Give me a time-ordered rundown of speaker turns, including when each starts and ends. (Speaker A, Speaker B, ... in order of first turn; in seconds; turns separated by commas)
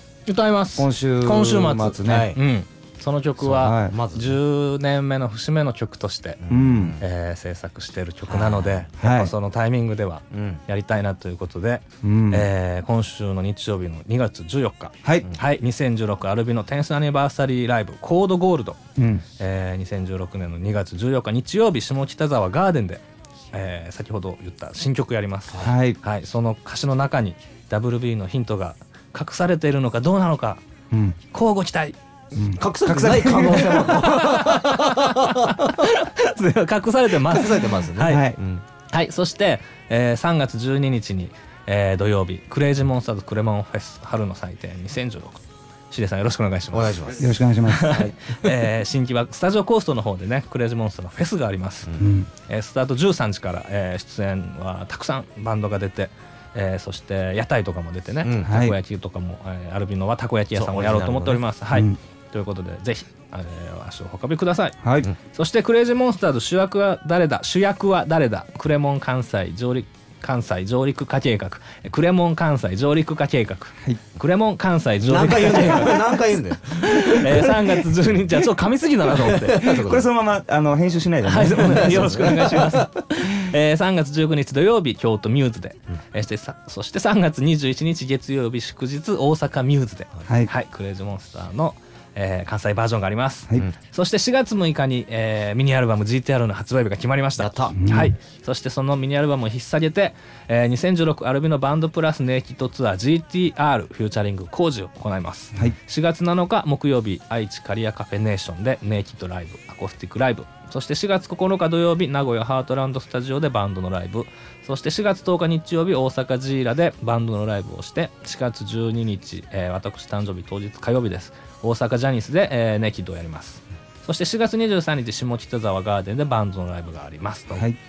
Speaker A: 0.3-6.4, Speaker B: 0.8-2.3, Speaker C: 2.0-2.4, Speaker C: 3.4-4.4, Speaker B: 3.5-4.0, Speaker C: 6.4-7.0, Speaker B: 6.5-7.0, Speaker A: 7.0-18.8, Speaker C: 8.3-8.9, Speaker B: 9.0-9.3, Speaker C: 10.3-10.6, Speaker B: 12.0-12.5, Speaker B: 19.0-19.2, Speaker A: 19.4-30.6, Speaker C: 25.5-25.8, Speaker B: 25.6-26.0, Speaker B: 30.9-31.2, Speaker A: 31.3-32.0, Speaker B: 32.3-34.0, Speaker C: 32.5-35.8, Speaker A: 33.6-38.3, Speaker C: 37.2-38.6, Speaker B: 38.0-38.4, Speaker A: 38.9-47.1, Speaker C: 46.7-47.3, Speaker B: 47.2-48.0, Speaker A: 47.7-76.2, Speaker C: 47.9-48.5, Speaker C: 51.9-52.1, Speaker B: 52.0-52.3, Speaker C: 58.2-58.6, Speaker B: 58.4-58.8, Speaker C: 60.5-61.5, Speaker B: 64.8-65.1, Speaker C: 75.1-77.5, Speaker A: 76.8-79.7, Speaker B: 77.0-77.4, Speaker C: 79.2-80.1, Speaker B: 79.6-82.6, Speaker A: 81.2-127.7, Speaker C: 81.6-82.8, Speaker C: 97.4-97.8, Speaker B: 97.8-98.2, Speaker B: 127.5-127.8